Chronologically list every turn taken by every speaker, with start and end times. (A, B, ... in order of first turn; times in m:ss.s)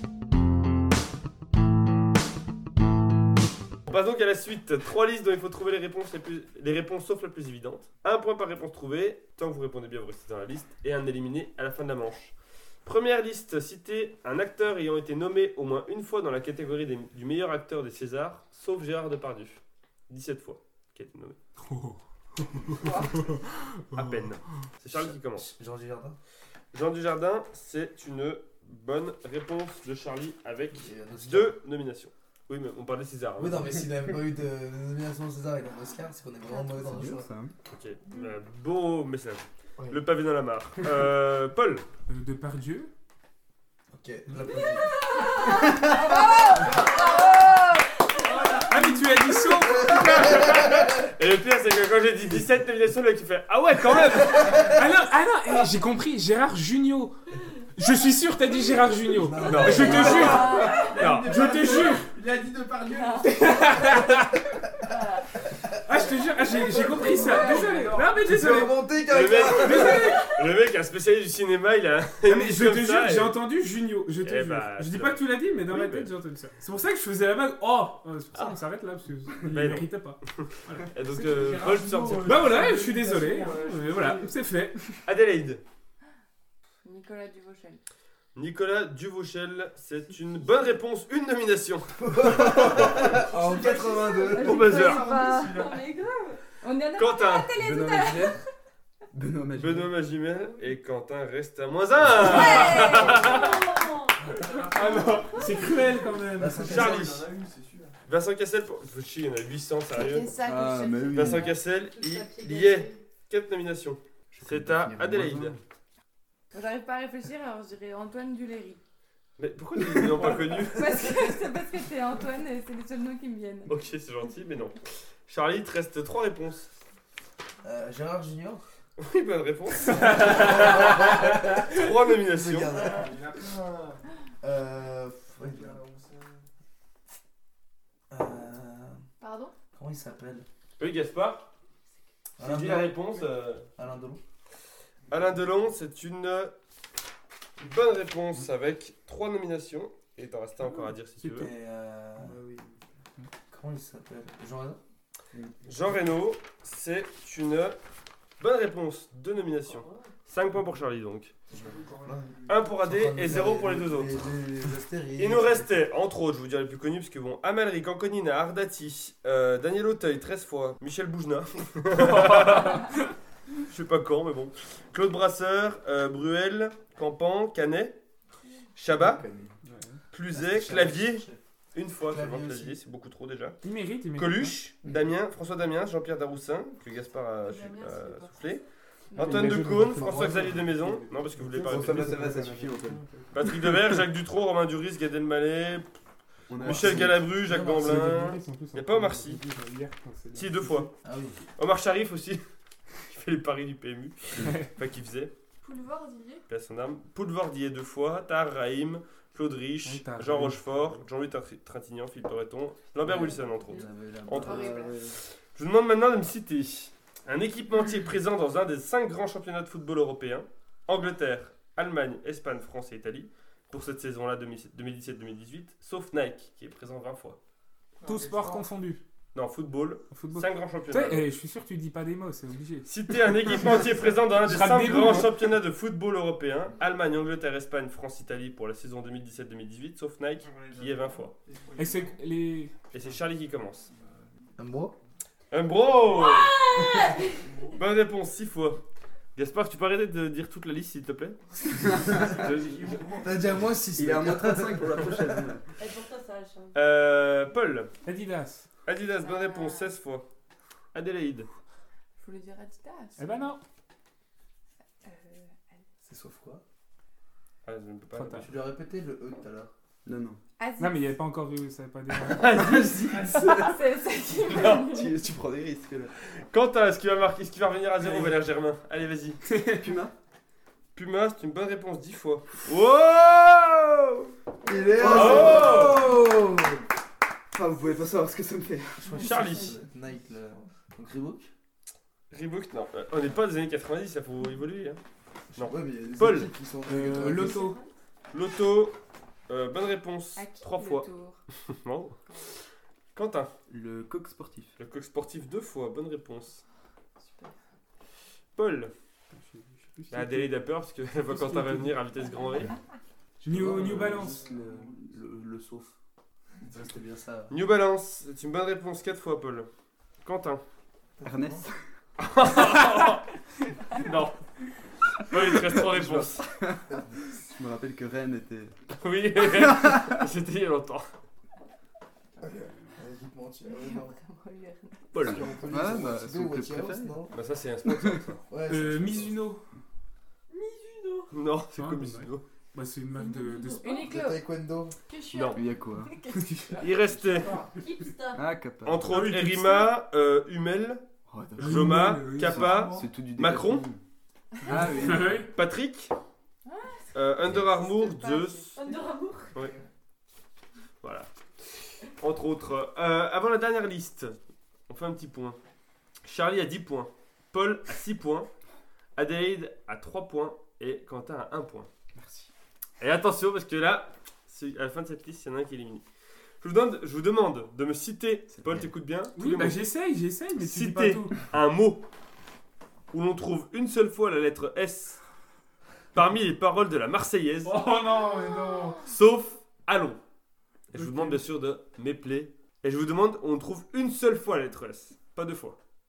0:03.9-0:21.4 A
0:21.6-0:24.3 B
0:22.8-0:23.2 C
0:23.9-0:25.5 A
0:24.9-0:26.2 D
0:26.7-0:33.9 A
0:30.8-0:31.6 D
0:33.4-0:37.3 D
0:36.8-0:37.5 E
0:37.7-0:41.8 A
0:42.1-0:42.9 B
0:43.9-0:46.4 D
0:44.6-0:47.4 F
0:45.1-0:48.5 C
0:48.3-0:49.0 G
0:48.4-0:48.6 F
0:48.7-0:50.8 B
0:49.6-0:51.0 D
0:49.9-0:54.7 A
0:54.2-0:54.7 D
0:54.7-0:57.2 B
0:57.8-1:02.1 B
0:59.0-1:00.4 D
0:59.4-1:01.8 A
0:59.7-1:04.0 G
1:00.1-1:00.9 C
1:03.3-1:04.4 B
1:04.9-1:05.2 C
1:05.8-1:08.8 B
1:06.4-1:08.3 G
1:07.2-1:07.9 C
1:08.2-1:10.2 D
1:09.1-1:13.4 A
1:09.4-1:10.3 B
1:12.2-1:25.0 B
1:14.2-1:16.1 A
1:18.3-1:18.6 A
1:19.4-1:22.6 A
1:21.1-1:24.4 G
1:25.0-1:25.6 A
1:26.8-1:27.8 C
1:28.3-1:33.0 A
1:32.0-1:34.6 D
1:32.4-1:36.0 G
1:34.3-1:35.8 C
1:34.4-1:35.0 A
1:34.6-1:36.4 F
1:36.6-1:38.4 C
1:37.0-1:37.5 A
1:37.6-1:38.4 E
1:39.1-1:39.9 E
1:39.5-1:43.7 A
1:42.2-1:43.5 C
1:42.6-1:44.2 F
1:44.2-1:47.9 G
1:44.7-1:46.7 B
1:46.4-1:47.1 D
1:46.6-1:47.3 A
1:48.1-1:50.3 A
1:49.9-1:52.8 C
1:50.4-1:51.6 E
1:51.1-1:55.6 A
1:52.0-1:52.9 F
1:54.3-1:55.6 E
1:56.5-1:58.8 C
1:59.4-2:01.4 A
2:00.7-2:03.7 C
2:03.7-2:06.7 A
2:07.6-2:08.6 D
2:09.0-2:12.7 A
2:09.9-2:10.4 B
2:10.4-2:11.1 D
2:12.3-2:13.2 D
2:12.6-2:14.0 G
2:14.4-2:15.8 D
2:15.3-2:16.5 G
2:18.1-2:19.0 D
2:19.2-2:19.5 C
2:19.7-2:20.4 D
2:20.8-2:21.5 A
2:22.4-2:23.2 D
2:22.4-2:23.6 A
2:23.8-2:24.2 D
2:25.1-2:26.5 A
2:27.6-2:31.5 A
2:30.8-2:31.5 B
2:31.4-2:32.3 D
2:32.2-2:32.8 G
2:33.5-2:34.8 D
2:35.6-2:37.8 A
2:38.4-2:41.3 A
2:41.5-2:42.7 G
2:41.5-2:42.2 D
2:42.5-2:44.2 A
2:42.8-2:45.8 D
2:45.2-2:52.9 A
2:52.0-2:53.0 B
2:53.6-2:58.0 A
2:58.8-2:59.2 A
2:58.9-2:59.5 E
2:59.6-3:00.0 B
3:00.1-3:03.6 A
3:00.3-3:01.4 D
3:02.0-3:02.8 D
3:03.6-3:04.6 B
3:04.1-3:12.2 A
3:07.4-3:08.6 F
3:09.1-3:11.6 B
3:09.6-3:10.6 E
3:10.0-3:10.6 D
3:11.4-3:13.3 G
3:11.6-3:13.0 E
3:13.3-3:15.9 A
3:16.5-3:17.3 E
3:16.6-3:19.4 A
3:16.6-3:18.4 D
3:17.7-3:20.9 B
3:20.3-3:20.9 A
3:21.0-3:21.4 D
3:21.6-3:22.4 A
3:23.1-3:25.3 A
3:25.6-3:26.4 F
3:26.5-3:47.4 A
3:29.8-3:30.9 B
3:33.1-3:33.8 F
3:33.7-3:35.1 D
3:34.4-3:35.0 C
3:48.0-3:48.7 G
3:48.0-3:49.0 B
3:49.3-3:51.3 A
3:50.1-3:52.9 B
3:52.9-4:01.3 A
3:54.4-3:55.3 B
4:00.4-4:02.2 G
4:01.8-4:02.7 B
4:02.9-4:03.9 A
4:03.9-4:04.4 G
4:04.6-4:04.9 D
4:05.5-4:06.6 A
4:06.1-4:07.4 F
4:07.4-4:07.8 G
4:07.7-4:08.8 A
4:09.3-4:13.0 A
4:12.0-4:13.8 G
4:13.2-4:15.5 D
4:13.9-4:15.7 E
4:15.8-4:16.8 F
4:16.7-4:17.9 A
4:18.0-4:18.7 B
4:18.8-4:20.2 A
4:19.2-4:19.9 C
4:20.9-4:21.5 A
4:22.2-4:23.4 C
4:23.2-4:23.6 B
4:25.0-4:25.6 C
4:26.0-4:26.6 D
4:27.6-4:28.5 A
4:28.1-4:28.5 B
4:28.4-4:29.7 D
4:30.0-4:30.4 E
4:30.6-4:31.1 C
4:30.8-4:33.2 B
4:32.2-4:33.5 A
4:32.8-4:33.8 E
4:33.4-4:35.1 C
4:34.5-4:35.0 A
4:34.6-4:36.1 E
4:36.5-4:39.4 A
4:38.0-4:38.4 B
4:39.4-4:39.9 B
4:39.7-4:40.1 E
4:40.9-4:44.3 A
4:44.7-4:46.3 E
4:44.7-4:46.8 D
4:45.0-4:46.0 A
4:47.5-4:49.1 E
4:49.0-4:51.5 D
4:49.2-4:49.7 A
4:52.3-4:55.0 A
4:55.5-4:57.6 D
4:55.5-4:56.5 A
4:56.8-4:57.8 B
4:57.3-4:57.9 F
4:58.3-4:59.0 A
4:59.5-5:01.1 A
5:00.4-5:01.4 C
5:01.6-5:02.2 A
5:03.1-5:03.5 A
5:03.7-5:04.7 E
5:04.8-5:06.6 A
5:08.5-5:08.9 A
5:09.3-5:10.5 B
5:10.1-5:12.7 A
5:11.2-5:12.0 B
5:13.4-5:14.4 B
5:13.4-5:15.9 D
5:13.5-5:14.8 E
5:16.6-5:17.6 D
5:17.5-5:19.7 A
5:20.2-5:20.6 A
5:21.2-5:21.6 D
5:21.2-5:21.8 E
5:22.2-5:23.3 A
5:23.9-5:24.4 A
5:25.2-5:26.5 A
5:25.7-5:28.7 E
5:26.9-5:27.2 D
5:29.0-5:31.1 A
5:29.4-5:30.1 E
5:32.5-5:34.2 D
5:33.7-5:35.3 C
5:35.1-5:35.5 A
5:35.2-5:37.3 E
5:35.2-5:37.3 D
5:37.3-5:38.4 A
5:37.8-5:38.2 E
5:38.5-5:39.4 D
5:38.6-5:39.6 B
5:40.5-5:41.3 F
5:41.3-5:42.4 A
5:41.7-5:43.9 B
5:43.1-5:44.1 F
5:43.8-5:44.4 C
5:44.0-5:45.0 D
5:45.1-5:45.7 F
5:45.3-5:45.6 A
5:45.5-5:46.2 E
5:46.1-5:46.4 C
5:46.7-5:47.8 G
5:46.8-5:47.5 A
5:47.7-5:48.5 F
5:48.3-5:49.1 E
5:48.8-5:51.0 A
5:49.0-5:49.9 B
5:51.3-5:54.0 E
5:51.6-5:53.8 A
5:51.6-5:52.8 B
5:52.3-5:53.1 G
5:54.6-5:55.5 E
5:54.7-5:55.5 B
5:55.5-5:56.1 A
5:56.6-5:59.0 C
5:57.1-5:58.8 A
5:58.8-5:59.6 F
6:01.0-6:04.3 A
6:04.9-6:05.6 A
6:06.2-6:08.5 A
6:09.2-6:11.9 A
6:12.2-6:12.5 E
6:13.0-6:16.0 A
6:16.6-6:19.8 A
6:18.5-6:18.9 E
6:19.4-6:21.4 B
6:20.6-6:22.0 A
6:23.1-6:25.2 A
6:26.1-6:27.8 A
6:27.6-6:29.0 B
6:29.0-6:30.2 A
6:30.9-6:35.8 A
6:30.9-6:31.4 B